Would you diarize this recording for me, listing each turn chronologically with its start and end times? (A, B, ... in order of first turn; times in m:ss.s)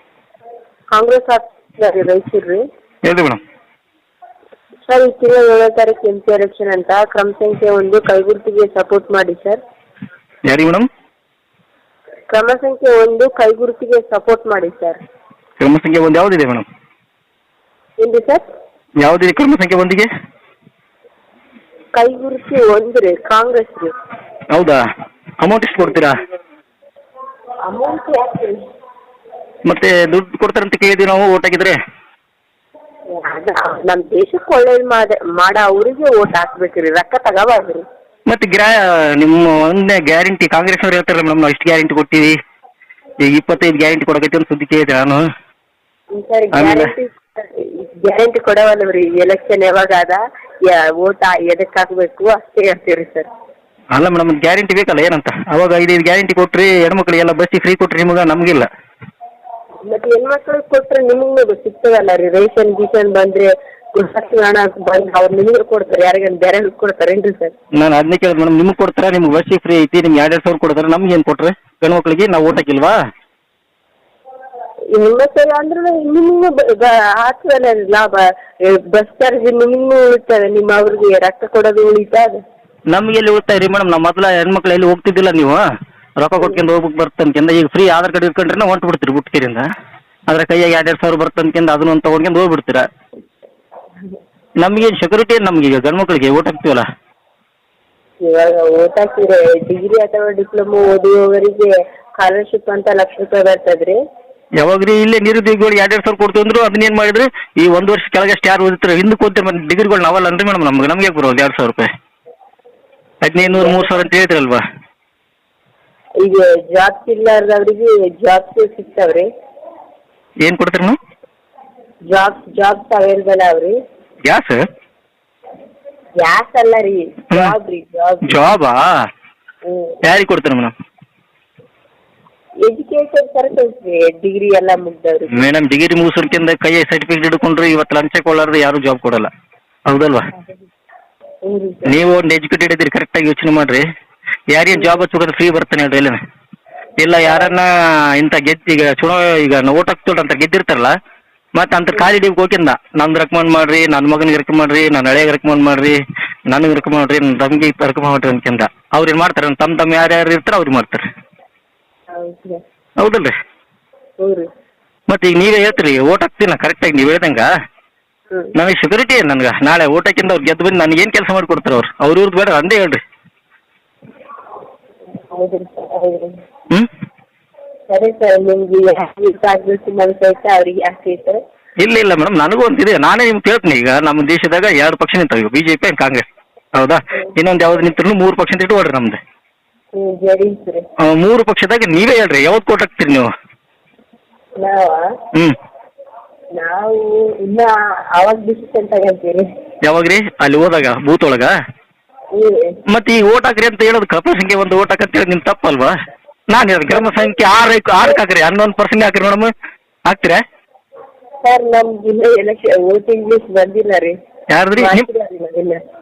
0:00.9-0:02.6 A
0:03.0-0:03.4 B
0:04.9-0:09.6 A
0:10.5-0:10.9 B
0:12.3-0:15.0 A
0:15.6-0:16.7 B
0:18.0-0:18.4 A
0:19.0-0:20.1 B
0:22.0-0:23.9 A
0:24.5-0:24.8 B
0:25.4-0:26.2 B
0:27.7-0:28.6 A
0:29.7-0:31.8 B
0:33.1-0:37.8 A
0:38.3-0:42.3 B
0:43.2-0:45.2 B
0:46.1-0:53.3 A
0:46.5-0:46.9 B
0:53.9-0:58.7 B
0:59.8-1:07.5 A
1:07.8-1:12.9 B
1:14.9-1:22.4 A
1:22.9-1:25.6 B
1:26.2-1:29.7 B
1:30.3-1:32.9 B
1:34.6-1:36.8 B
1:38.2-1:44.0 A
1:44.6-1:51.9 B
1:53.2-1:54.6 B
1:53.4-1:54.0 A
1:56.2-1:59.3 A
2:00.4-2:01.0 B
2:02.1-2:03.8 A
2:04.3-2:04.6 B
2:06.2-2:08.5 A
2:08.3-2:08.8 B
2:09.7-2:10.0 A
2:10.0-2:10.7 B
2:12.6-2:15.4 A
2:15.3-2:19.3 B
2:19.9-2:20.3 B
2:21.4-2:21.9 A
2:21.8-2:23.8 B
2:24.5-2:26.2 B
2:24.8-2:25.0 A
2:27.0-2:30.9 B
2:27.2-2:27.5 A
2:31.5-2:36.0 B
2:36.5-2:41.0 B
2:42.1-2:42.6 A
2:43.0-2:43.3 B
2:44.2-2:44.5 A
2:45.1-2:47.5 B
2:48.5-2:53.0 B
2:55.3-2:56.4 A
2:57.9-3:01.4 A
3:01.8-3:09.2 B
3:09.9-3:10.8 A
3:11.0-3:13.3 B
3:14.6-3:15.1 A
3:16.6-3:19.5 A
3:19.8-3:21.5 B
3:22.3-3:22.8 A
3:22.9-3:25.9 B
3:26.5-3:29.5 B
3:26.9-3:27.4 A
3:30.1-3:30.4 B
3:31.4-3:34.2 A
3:34.5-3:35.1 B
3:34.8-3:35.8 A